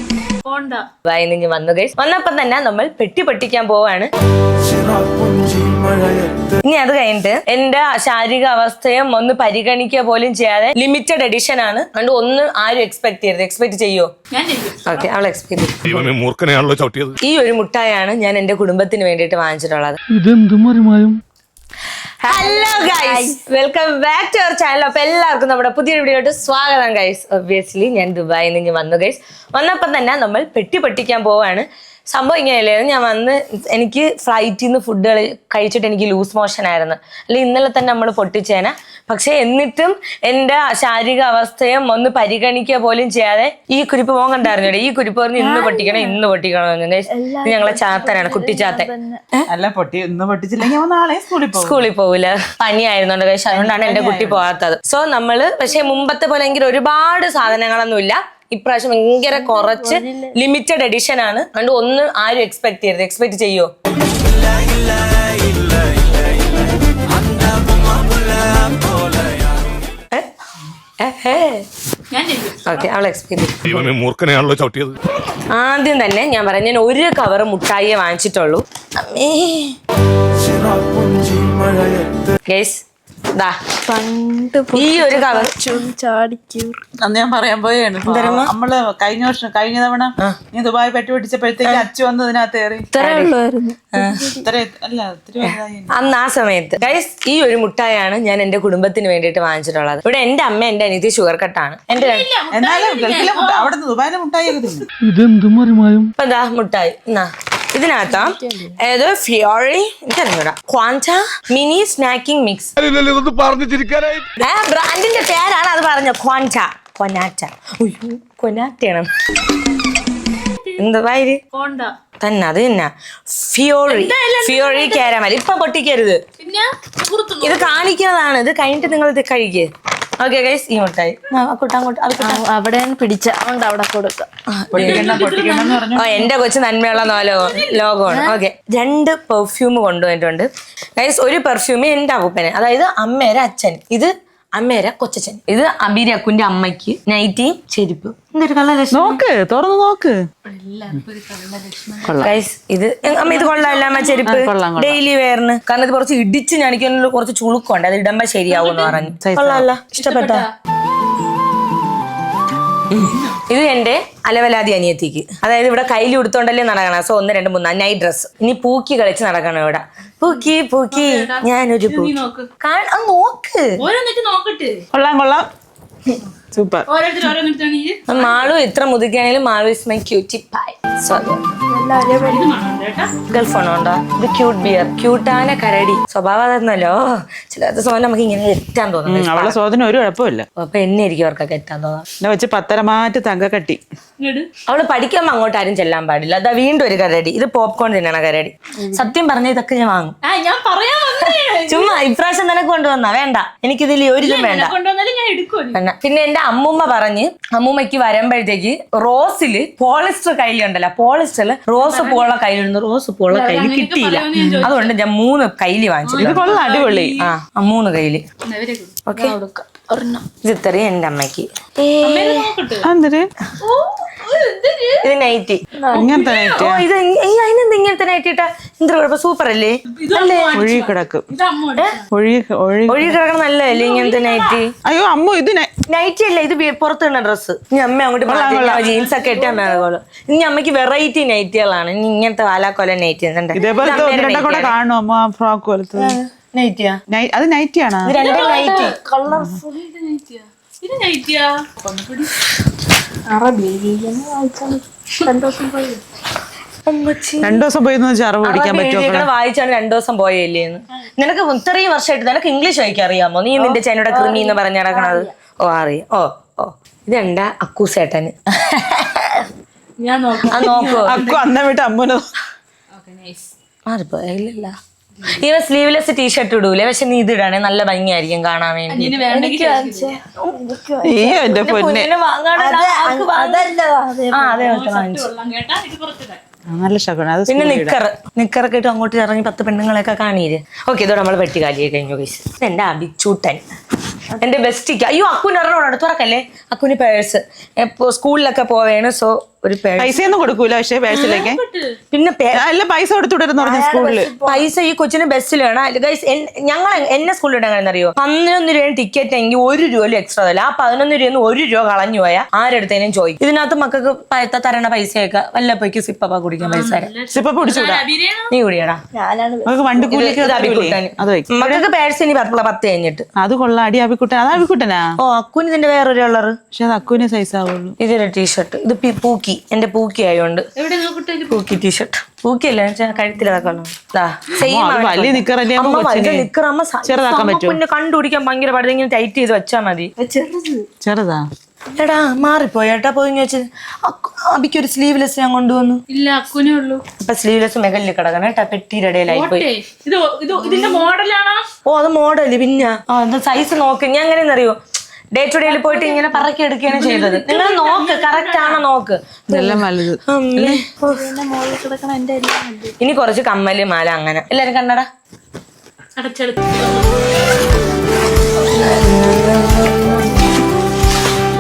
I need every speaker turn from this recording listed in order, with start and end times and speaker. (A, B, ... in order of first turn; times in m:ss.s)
0:00.4-0:00.9 A
0:01.1-0:04.1 B
0:04.9-0:06.3 C
0:06.6-0:14.1 B
0:14.3-0:15.1 A
0:14.8-0:16.1 B
0:15.9-0:17.2 D
0:17.2-0:20.0 B
0:20.1-0:21.2 E
0:22.2-0:49.5 B
0:22.2-0:23.4 F
0:45.4-0:46.2 F
0:47.1-0:49.2 F
0:49.5-0:51.8 C
0:51.6-1:03.7 B
0:53.5-0:54.4 C
0:59.3-1:00.3 F
1:11.0-1:11.7 B
1:12.1-1:12.9 A
1:12.6-1:13.8 B
1:13.7-1:15.0 D
1:15.5-1:19.8 B
1:20.4-1:22.1 C
1:22.5-1:22.8 B
1:23.9-1:26.8 F
1:24.7-1:25.5 B
1:27.0-1:32.9 C
1:28.0-1:28.5 B
1:32.9-1:34.5 F
1:33.0-1:33.4 B
1:33.9-1:34.3 B
1:34.4-1:36.0 C
1:35.4-1:42.3 B
1:41.9-1:43.7 A
1:42.5-1:44.9 C
1:45.0-1:46.1 E
1:46.2-1:52.7 B
1:48.1-1:48.8 F
1:52.8-1:54.2 E
1:54.4-1:59.1 B
2:00.8-2:01.4 B
2:01.5-2:01.9 A
2:02.2-2:06.2 B
2:03.9-2:05.2 A
2:06.4-2:07.9 A
2:07.4-2:09.7 B
2:10.2-2:12.4 B
2:12.2-2:14.3 F
2:14.5-2:15.3 B
2:14.7-2:16.3 C
2:14.8-2:15.9 A
2:16.0-2:29.2 B
2:17.1-2:17.8 A
2:18.1-2:18.4 F
2:28.9-2:30.2 C
2:30.4-2:32.3 A
2:32.1-2:32.3 C
2:32.2-2:40.4 B
2:33.0-2:34.3 A
2:34.2-2:35.0 C
2:38.5-2:38.9 A
2:38.9-2:39.7 C
2:40.0-2:40.5 A
2:43.0-2:43.4 A
2:43.5-2:53.7 B
2:50.9-2:52.5 A
2:53.8-2:54.8 A
2:54.9-2:55.5 C
2:56.5-2:56.9 C
2:56.9-2:58.5 A
2:58.1-3:01.6 B
3:01.7-3:02.5 F
3:02.2-3:03.1 A
3:03.3-3:09.6 B
3:09.1-3:10.5 C
3:10.6-3:12.0 B
3:12.2-3:13.8 C
3:14.2-3:14.5 A
3:14.7-3:20.2 B
3:20.2-3:22.0 A
3:21.7-3:24.8 B
3:24.2-3:25.8 A
3:25.7-3:36.6 B
3:31.8-3:32.3 A
3:33.3-3:34.9 A
3:36.0-3:37.3 A
3:36.2-3:37.2 C
3:37.2-3:38.2 B
3:38.5-3:39.0 A
3:39.1-3:39.4 B
3:39.2-3:40.2 F
3:40.4-3:42.5 B
3:42.0-3:42.9 A
3:42.8-3:43.3 C
3:43.6-3:45.1 A
3:45.0-3:45.6 B
3:45.8-3:46.1 F
3:45.9-3:46.7 A
3:45.9-3:46.9 C
3:46.6-3:50.6 B
3:50.0-3:52.1 A
3:50.5-3:51.3 C
3:52.1-3:53.2 C
3:52.9-3:54.7 B
3:53.7-3:54.7 A
3:54.8-3:55.7 C
3:55.9-4:04.8 B
3:58.3-3:58.9 C
3:58.7-3:59.7 A
4:03.5-4:06.2 C
4:06.0-4:07.0 B
4:07.1-4:08.2 C
4:08.0-4:09.0 B
4:08.2-4:09.0 A
4:08.5-4:09.7 F
4:09.6-4:12.4 A
4:13.3-4:16.0 F
4:16.9-4:17.6 B
4:17.4-4:19.3 C
4:18.4-4:29.5 B
4:24.1-4:25.3 F
4:30.0-4:31.5 A
4:30.5-4:31.2 B
4:30.8-4:32.3 C
4:32.9-4:33.5 A
4:33.9-4:34.7 B
4:35.2-4:39.2 B
4:38.9-4:40.2 A
4:39.3-4:41.6 F
4:41.0-4:42.1 C
4:41.5-4:43.7 B
4:42.6-4:44.7 F
4:44.3-4:45.3 B
4:44.6-4:46.4 A
4:46.7-4:48.0 C
4:47.5-4:53.6 B
4:54.4-5:00.2 B
5:00.0-5:01.6 C
5:01.1-5:01.9 A
5:02.1-5:02.6 B
5:02.5-5:04.3 C
5:03.6-5:04.7 F
5:04.4-5:17.1 B
5:16.6-5:18.5 A
5:17.3-5:18.0 C
5:18.5-5:19.0 B
5:19.2-5:20.2 F
5:19.7-5:21.9 C
5:20.1-5:23.3 B
5:23.4-5:25.1 C
5:25.2-5:26.6 B
5:26.7-5:28.0 C
5:28.0-5:30.7 B
5:30.8-5:31.7 A
5:31.5-5:40.1 B
5:34.6-5:36.5 C
5:37.1-5:37.8 C
5:40.2-5:40.9 F
5:41.0-5:41.5 C
5:42.0-5:46.0 B
5:46.1-5:47.0 A
5:47.2-5:49.7 B
5:49.3-5:51.7 A
5:50.6-5:51.1 B
5:51.9-5:54.8 B
5:55.3-6:01.3 B
5:55.6-5:58.9 A
5:59.5-6:00.8 C
6:01.0-6:03.0 F
6:03.0-6:05.1 B
6:06.2-6:07.2 A
6:08.6-6:10.4 B